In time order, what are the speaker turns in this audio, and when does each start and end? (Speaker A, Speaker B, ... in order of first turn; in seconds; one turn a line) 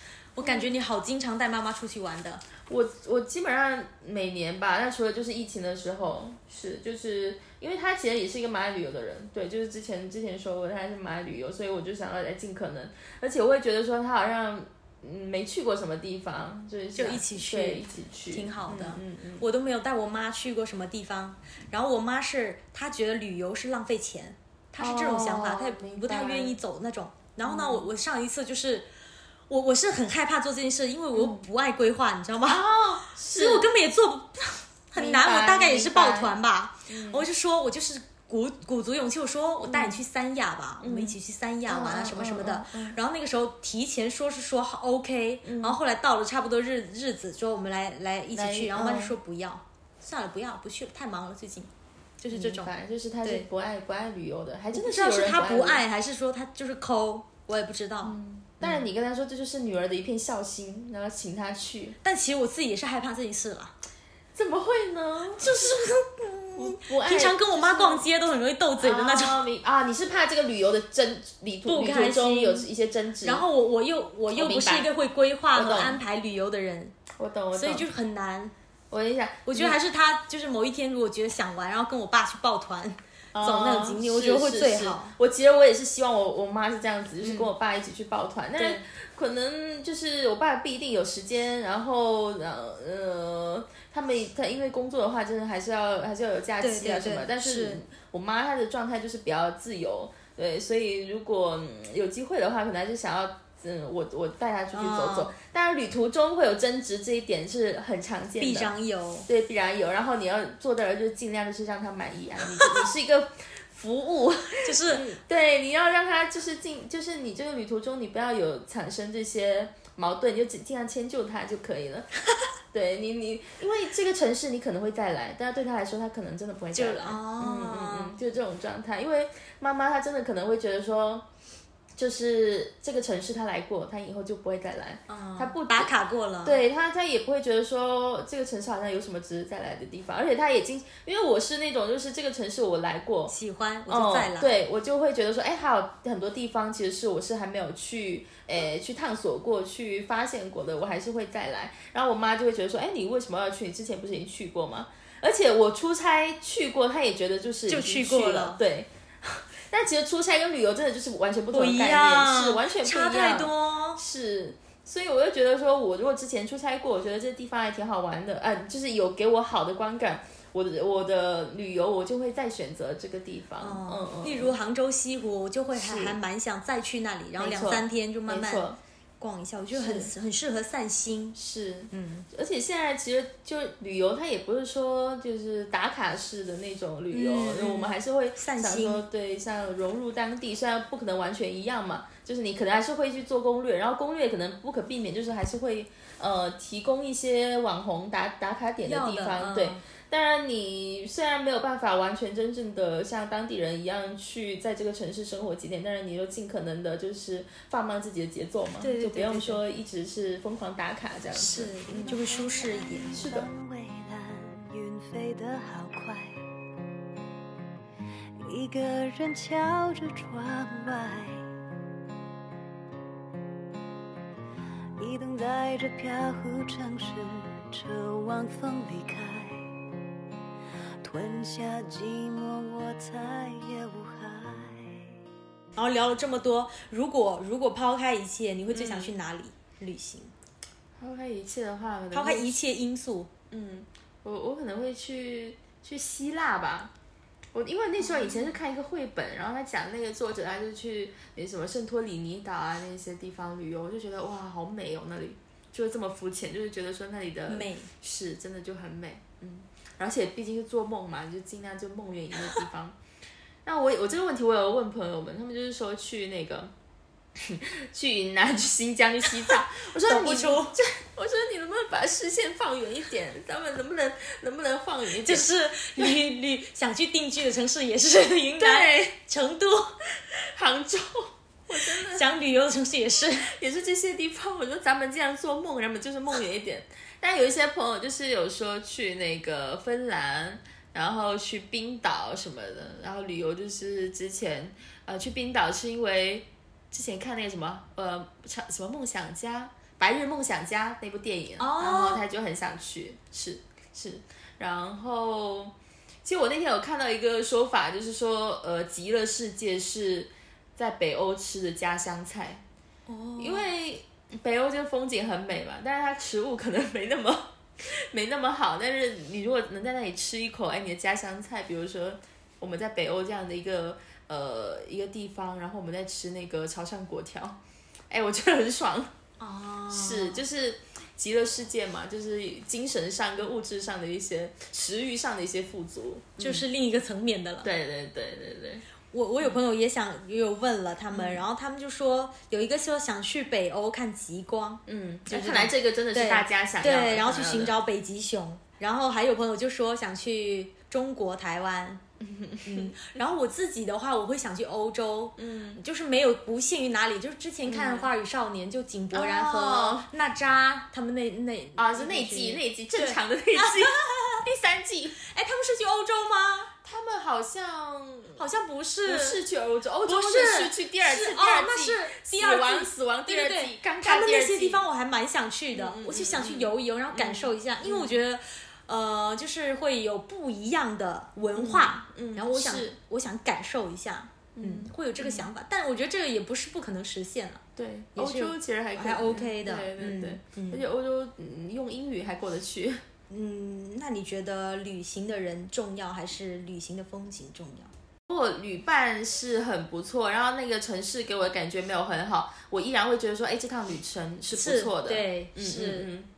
Speaker A: 0.3-2.4
Speaker B: 0.4-0.7
Speaker B: 2.7-19.4
Speaker A: 16.9-28.9
Speaker B: 24.8-26.6
Speaker B: 27.4-27.9
Speaker A: 29.5-52.7
Speaker B: 31.1-31.4
Speaker B: 32.5-33.7
Speaker B: 35.0-36.4
Speaker B: 36.9-37.2
Speaker B: 39.6-40.0
Speaker B: 40.8-43.0
Speaker B: 45.4-45.8
Speaker B: 48.3-49.1
Speaker B: 52.3-55.8
Speaker A: 54.7-58.8
Speaker B: 58.0-62.0
Speaker A: 62.0-63.7
Speaker B: 64.3-65.6
Speaker A: 65.4-69.5
Speaker B: 66.6-68.0
Speaker B: 68.8-73.5
Speaker A: 71.7-72.7
Speaker A: 73.2-76.9
Speaker B: 74.3-74.9
Speaker B: 75.5-76.0
Speaker B: 77.2-77.9
Speaker A: 77.5-78.5
Speaker B: 78.9-79.8
Speaker A: 79.5-85.1
Speaker B: 83.3-108.7
Speaker A: 87.2-87.5
Speaker A: 88.6-88.8
Speaker A: 96.6-97.8
Speaker A: 104.7-105.3
Speaker A: 108.4-109.3
Speaker B: 109.3-122.1
Speaker A: 114.6-115.2
Speaker B: 122.7-131.2
Speaker A: 126.7-128.1
Speaker B: 131.9-135.9
Speaker A: 135.1-136.6
Speaker B: 136.4-143.3
Speaker A: 143.3-144.5
Speaker B: 143.9-174.5
Speaker A: 157.7-158.6
Speaker A: 161.5-164.0
Speaker A: 173.6-178.7
Speaker B: 175.7-176.2
Speaker B: 177.4-178.8
Speaker A: 179.2-181.4
Speaker B: 179.7-180.1
Speaker B: 181.3-212.1
Speaker A: 181.9-182.3
Speaker A: 187.1-189.0
Speaker A: 198.8-199.8
Speaker A: 208.8-209.6
Speaker A: 211.3-213.2
Speaker C: 211.9-216.4
Speaker B: 213.1-213.5
Speaker C: 218.4-221.4
Speaker C: 225.0-229.7
Speaker C: 231.0-235.0
Speaker A: 235.8-240.3
Speaker B: 238.7-239.1
Speaker B: 241.0-242.6
Speaker A: 242.1-243.3
Speaker B: 243.5-246.9
Speaker B: 247.5-263.0
Speaker A: 248.0-248.5
Speaker A: 257.5-257.9
Speaker B: 263.6-266.7
Speaker B: 267.4-276.1
Speaker A: 270.0-270.8
Speaker A: 275.2-279.9
Speaker B: 278.6-279.1
Speaker B: 280.2-282.3
Speaker A: 281.9-283.5
Speaker B: 283.4-312.6
Speaker A: 301.6-302.2
Speaker A: 313.1-313.7
Speaker B: 313.4-327.6
Speaker B: 328.1-329.1
Speaker A: 329.4-330.4
Speaker B: 329.9-336.6
Speaker A: 336.4-337.7
Speaker B: 337.6-338.8
Speaker A: 339.1-352.0
Speaker B: 341.1-341.4
Speaker B: 344.9-347.8
Speaker B: 352.2-353.0
Speaker A: 352.6-364.4
Speaker B: 355.4-355.8
Speaker B: 357.6-358.1
Speaker B: 359.1-360.1
Speaker B: 361.8-365.2
Speaker A: 365.2-366.7
Speaker B: 366.8-368.4
Speaker A: 368.4-369.4
Speaker B: 369.0-374.8
Speaker A: 370.0-387.6
Speaker B: 375.7-378.2
Speaker B: 381.5-382.9
Speaker B: 384.6-385.5
Speaker B: 387.8-393.0
Speaker A: 388.1-390.8
Speaker A: 393.3-397.9
Speaker B: 398.3-406.3
Speaker A: 404.5-406.1